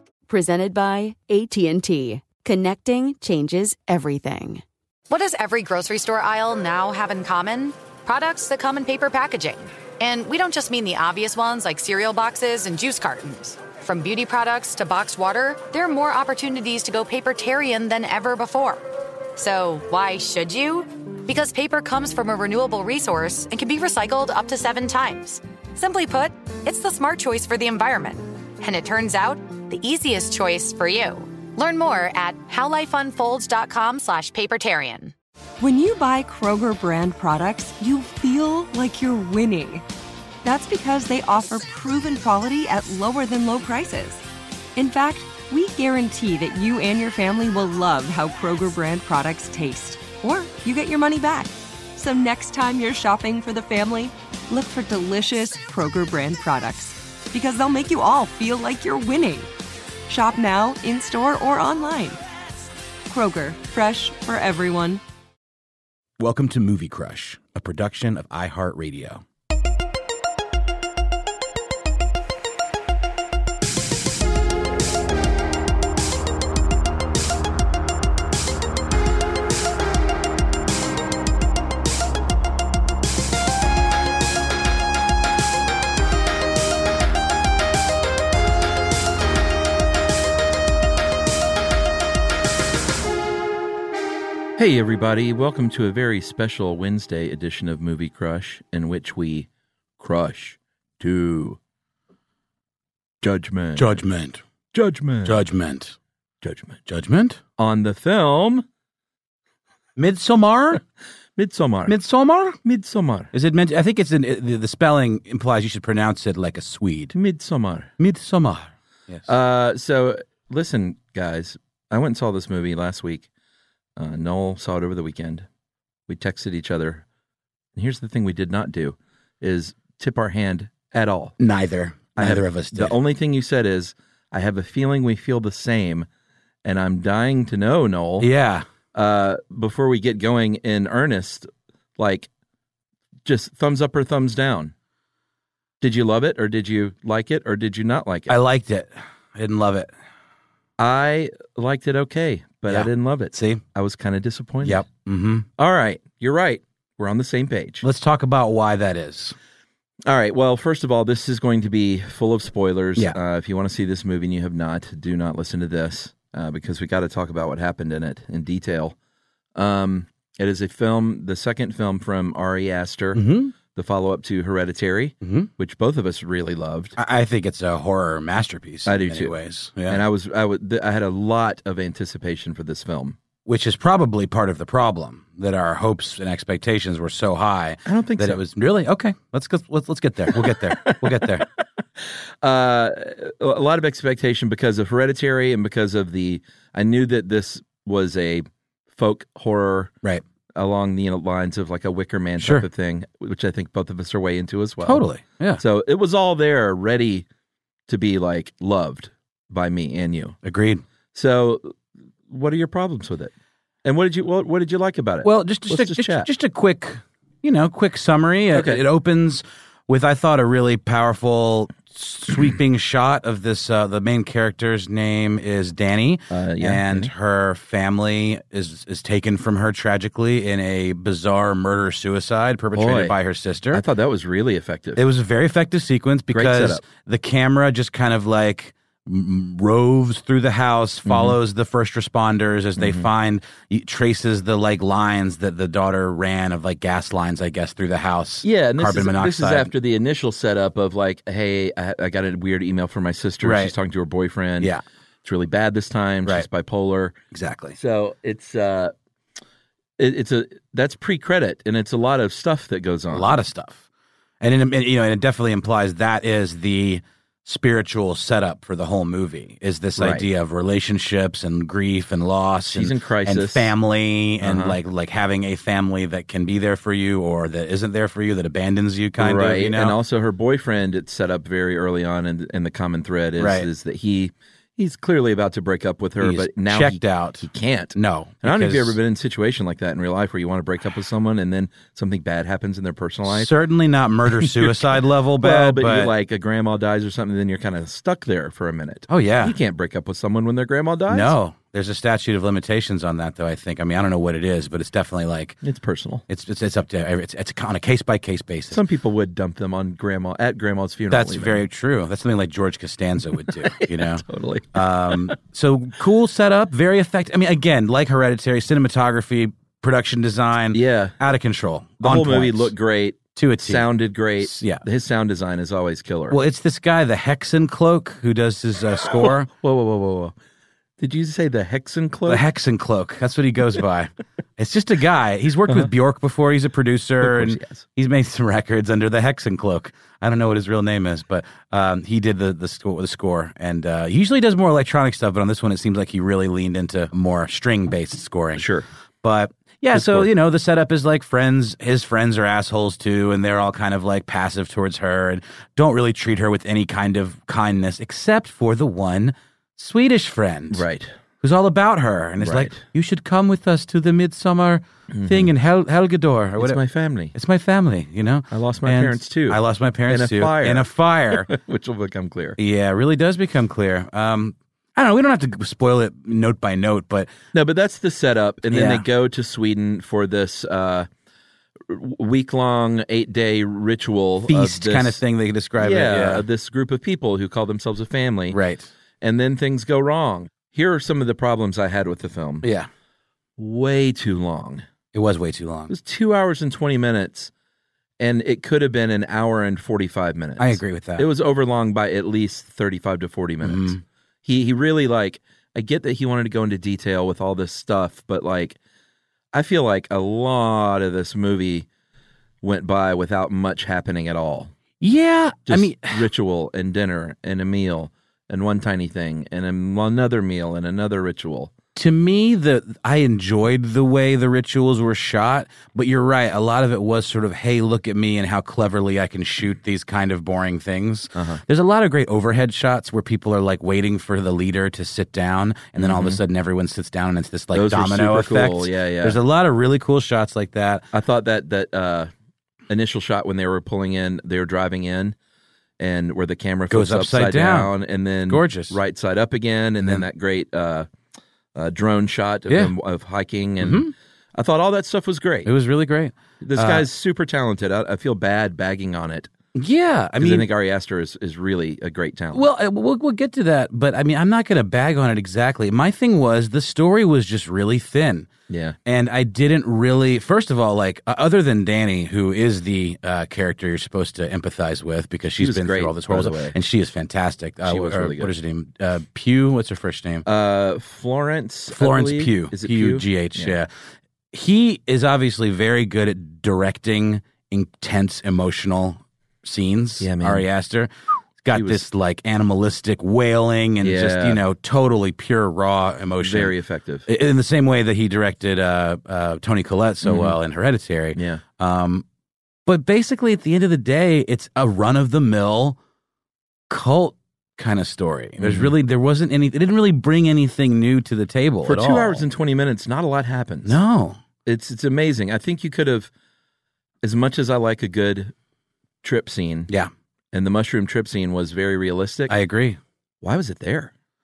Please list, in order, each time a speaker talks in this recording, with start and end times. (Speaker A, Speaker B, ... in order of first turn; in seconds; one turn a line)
Speaker A: 0.3-4.6
Speaker B: 5.1-18.8
Speaker B: 19.4-35.1
Speaker C: 35.6-39.8
Speaker C: 40.4-44.2
Speaker C: 44.8-59.5
Speaker C: 60.1-62.2
Speaker C: 63.1-65.0
Speaker D: 66.2-69.2
Speaker E: 94.6-99.5
Speaker E: 100.0-101.6
Speaker E: 103.2-104.0
Speaker D: 103.8-104.4
Speaker E: 104.7-105.4
Speaker D: 105.2-106.0
Speaker E: 106.4-106.8
Speaker D: 106.9-107.4
Speaker E: 107.6-108.6
Speaker D: 110.0-110.8
Speaker E: 111.4-111.9
Speaker D: 111.9-112.6
Speaker E: 112.6-113.3
Speaker D: 113.3-117.1
Speaker E: 117.1-117.9
Speaker D: 118.0-119.3
Speaker E: 119.3-123.3
Speaker E: 124.0-125.5
Speaker E: 126.1-127.0
Speaker E: 127.8-131.3
Speaker D: 131.4-132.9
Speaker E: 132.2-136.1
Speaker E: 136.6-138.3
Speaker D: 138.2-138.7
Speaker E: 138.9-142.3
Speaker E: 143.2-144.7
Speaker E: 145.8-148.3
Speaker D: 148.3-149.9
Speaker E: 150.8-154.8
Speaker D: 152.7-153.6
Speaker D: 154.6-155.4
Speaker E: 155.6-157.8
Speaker D: 157.8-159.3
Speaker E: 160.1-168.9
Speaker E: 169.5-173.2
Speaker D: 173.1-173.5
Speaker E: 173.7-177.0
Speaker D: 175.2-175.5
Speaker D: 177.0-180.0
Speaker E: 178.8-179.3
Speaker E: 179.9-183.2
Speaker D: 183.4-191.4
Speaker E: 187.8-188.4
Speaker E: 190.3-191.4
Speaker E: 192.4-199.9
Speaker E: 200.5-205.0
Speaker D: 202.4-202.6
Speaker D: 204.8-205.6
Speaker E: 205.6-207.2
Speaker E: 207.9-210.4
Speaker D: 210.4-210.8
Speaker E: 211.1-211.8
Speaker E: 212.3-213.3
Speaker E: 213.8-216.3
Speaker D: 215.2-233.8
Speaker E: 218.5-218.8
Speaker E: 226.3-227.1
Speaker E: 232.7-233.1
Speaker E: 233.7-235.0
Speaker D: 235.0-249.7
Speaker E: 236.3-236.8
Speaker E: 241.1-241.4
Speaker E: 242.8-243.1
Speaker E: 248.4-254.7
Speaker D: 253.4-253.7
Speaker E: 255.2-257.2
Speaker D: 257.3-257.8
Speaker E: 257.7-258.9
Speaker E: 260.0-263.3
Speaker D: 263.1-263.8
Speaker D: 264.4-279.9
Speaker E: 270.0-270.3
Speaker E: 272.7-273.7
Speaker E: 274.4-274.8
Speaker E: 279.2-293.5
Speaker D: 283.4-283.7
Speaker D: 286.2-289.0
Speaker D: 293.2-296.1
Speaker E: 294.4-301.4
Speaker D: 299.1-299.5
Speaker D: 301.1-305.6
Speaker E: 305.6-306.2
Speaker D: 306.3-308.8
Speaker E: 308.7-311.6
Speaker D: 311.1-322.7
Speaker E: 313.6-315.2
Speaker E: 320.7-321.1
Speaker E: 322.0-326.4
Speaker D: 323.4-323.9
Speaker D: 324.4-324.8
Speaker D: 326.3-329.5
Speaker E: 329.1-330.3
Speaker E: 331.0-332.4
Speaker D: 332.3-348.6
Speaker E: 337.2-337.8
Speaker E: 348.6-348.9
Speaker D: 349.2-360.8
Speaker E: 349.9-350.3
Speaker E: 360.7-361.1
Speaker D: 361.4-366.8
Speaker E: 362.4-362.8
Speaker E: 365.1-365.5
Speaker E: 366.6-367.3
Speaker D: 367.3-371.5
Speaker E: 368.5-372.6
Speaker D: 372.6-377.3
Speaker E: 377.5-381.1
Speaker D: 378.7-379.0
Speaker E: 381.9-385.2
Speaker D: 384.4-386.4
Speaker E: 385.8-388.6
Speaker D: 388.5-388.9
Speaker E: 389.2-392.6
Speaker D: 392.6-392.9
Speaker E: 393.6-394.8
Speaker D: 395.1-395.9
Speaker E: 395.9-397.5
Speaker E: 398.2-408.8
Speaker D: 400.6-401.2
Speaker D: 403.6-404.0
Speaker E: 409.5-411.9
Speaker E: 412.6-414.7
Speaker D: 415.0-416.2
Speaker E: 415.7-421.7
Speaker D: 421.9-441.0
Speaker E: 431.3-431.6
Speaker E: 435.9-436.4
Speaker E: 437.7-439.4
Speaker E: 441.1-442.3
Speaker E: 442.9-445.3
Speaker E: 446.0-451.1
Speaker D: 446.9-447.9
Speaker D: 448.5-448.9
Speaker E: 451.7-455.7
Speaker D: 453.8-454.1
Speaker D: 455.6-457.1
Speaker E: 456.6-459.5
Speaker D: 459.8-460.7
Speaker E: 460.4-462.6
Speaker D: 462.5-468.5
Speaker E: 468.7-468.9
Speaker D: 469.1-480.4
Speaker E: 475.6-476.7
Speaker E: 477.8-478.5
Speaker E: 480.4-483.8
Speaker D: 481.9-483.9
Speaker D: 484.5-491.1
Speaker E: 490.2-490.6
Speaker D: 491.6-496.7
Speaker E: 491.7-492.0
Speaker E: 494.0-494.6
Speaker E: 496.4-497.3
Speaker D: 497.3-502.2
Speaker E: 500.2-500.6
Speaker E: 501.3-501.6
Speaker D: 502.9-506.0
Speaker D: 506.9-512.4
Speaker E: 508.6-508.9
Speaker E: 511.8-513.9
Speaker D: 513.8-514.4
Speaker E: 514.6-516.3
Speaker E: 517.2-518.5
Speaker E: 519.2-519.9
Speaker E: 520.5-522.5
Speaker D: 522.5-523.0
Speaker E: 523.4-524.1